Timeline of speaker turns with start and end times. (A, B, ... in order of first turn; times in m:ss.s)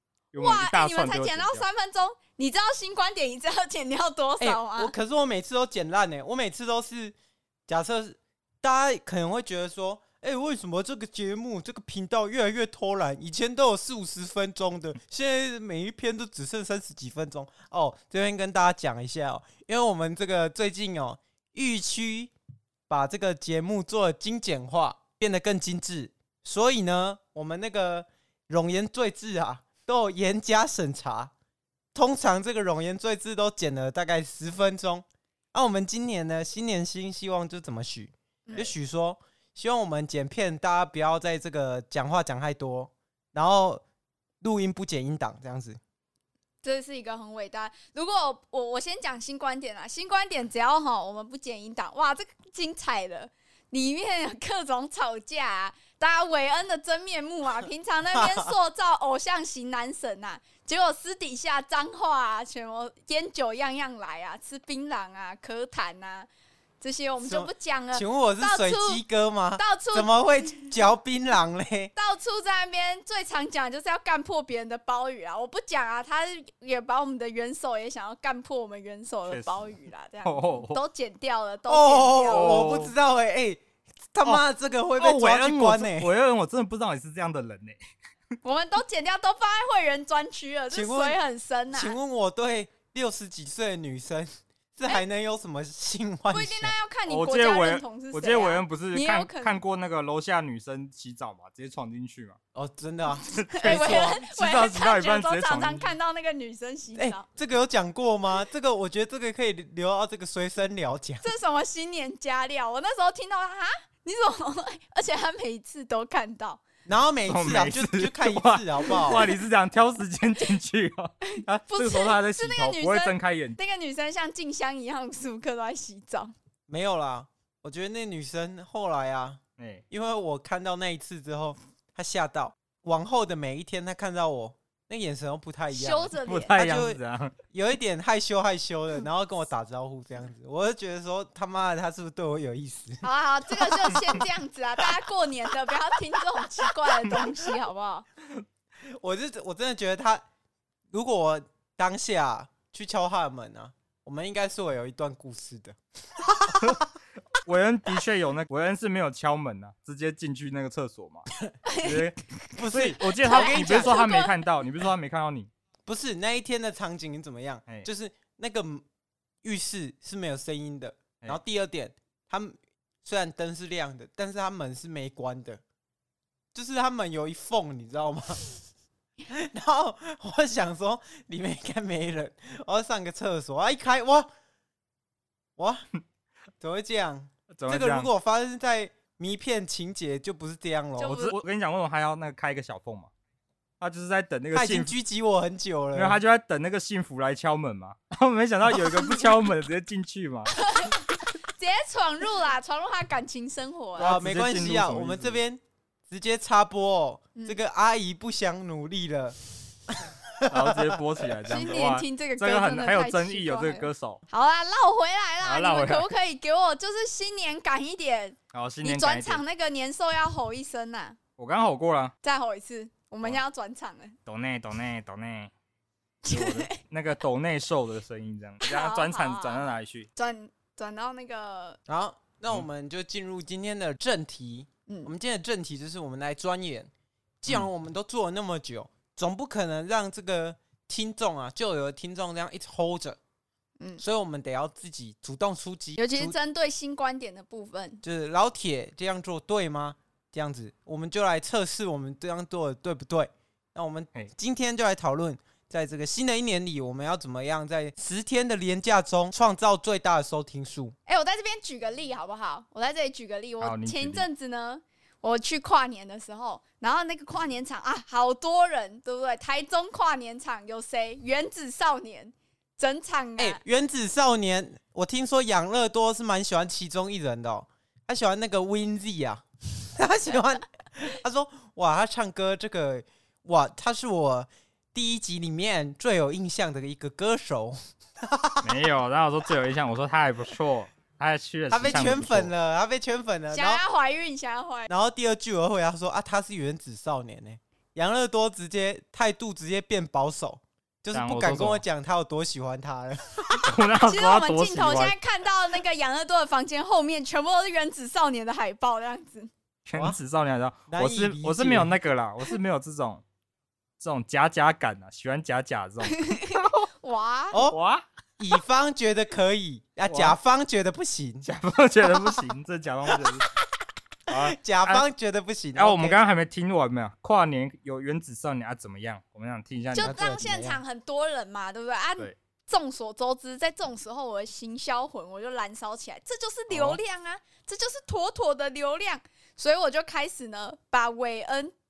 0:00.3-0:01.6 A
0:00.3-0:04.9 B
0:04.4-0:07.1 C
0:07.7-0:22.3 C
0:22.9-0:31.3 C
0:31.9-0:43.8 C
0:44.4-0:45.8 C
0:46.6-1:06.3 B
0:58.1-0:58.5 C
1:06.8-1:09.0 B
1:07.2-1:11.9 C
1:09.6-1:10.6 B
1:12.0-1:22.6 B
1:19.3-1:19.7 A
1:20.2-1:20.8 A
1:21.7-1:23.6 C
1:22.3-1:22.9 A
1:24.1-1:26.1 C
1:25.0-1:27.8 A
1:28.4-1:32.0 B
1:30.7-1:31.2 C
1:31.7-1:36.7 C
1:36.3-1:39.6 B
1:37.1-1:42.4 A
1:42.5-1:44.2 C
1:43.2-1:45.9 A
1:43.5-1:47.2 B
1:47.0-1:51.2 C
1:51.2-1:56.6 B
1:56.8-1:59.3 C
1:57.3-2:03.6 A
2:01.3-2:06.3 B
2:06.7-2:17.0 C
2:09.6-2:09.8 A
2:15.7-2:16.5 B
2:16.2-2:17.3 A
2:17.5-2:23.0 C
2:23.0-2:28.0 B
2:23.6-2:24.2 C
2:28.9-2:30.2 C
2:30.9-2:36.9 C
2:37.3-2:41.3 A
2:41.6-2:42.0 B
2:41.8-2:45.5 A
2:42.5-2:44.0 C
2:43.2-2:44.4 B
2:45.8-2:48.8 C
2:49.4-2:55.6 C
2:56.5-2:58.5 C
2:59.3-3:04.3 C
3:05.6-3:05.8 C
3:06.6-3:11.3 C
3:07.5-3:08.1 A
3:11.0-3:11.3 B
3:11.0-3:13.1 A
3:13.8-3:14.9 A
3:14.5-3:16.2 C
3:15.9-3:20.6 A
3:20.5-3:24.2 B
3:24.0-3:25.4 A
3:24.0-3:29.4 C
3:29.9-3:30.9 C
3:30.5-3:34.2 A
3:31.5-3:41.2 B
3:35.4-3:36.1 A
3:38.5-3:39.4 A
3:41.4-3:42.1 A
3:42.2-3:44.2 B
3:44.2-3:45.5 A
3:46.2-3:46.8 B
3:46.3-3:50.1 A
3:48.6-3:51.8 B
3:51.9-3:56.9 C
3:57.4-4:03.2 C
4:04.0-4:06.4 C
4:06.0-4:08.0 B
4:08.0-4:20.9 C
4:21.1-4:33.6 B
4:23.6-4:24.2 A
4:33.4-4:39.4 C
4:39.9-4:48.7 C
4:48.6-4:52.5 A
4:51.7-4:53.8 C
4:53.5-4:54.9 B
4:54.9-5:03.7 C
5:01.1-5:01.8 A
5:03.6-5:05.2 A
5:04.0-5:09.5 B
5:09.8-5:13.2 A
5:10.9-5:11.9 C
5:14.0-5:16.8 A
5:16.0-5:17.6 B
5:17.5-5:17.8 C
5:17.7-5:18.0 A
5:18.4-5:21.5 C
5:20.1-5:20.4 A
5:21.4-5:23.5 A
5:24.3-5:25.0 A
5:24.3-5:26.2 C
5:25.8-5:30.2 A
5:29.9-5:41.7 B
5:30.0-5:30.8 C
5:36.7-5:37.0 A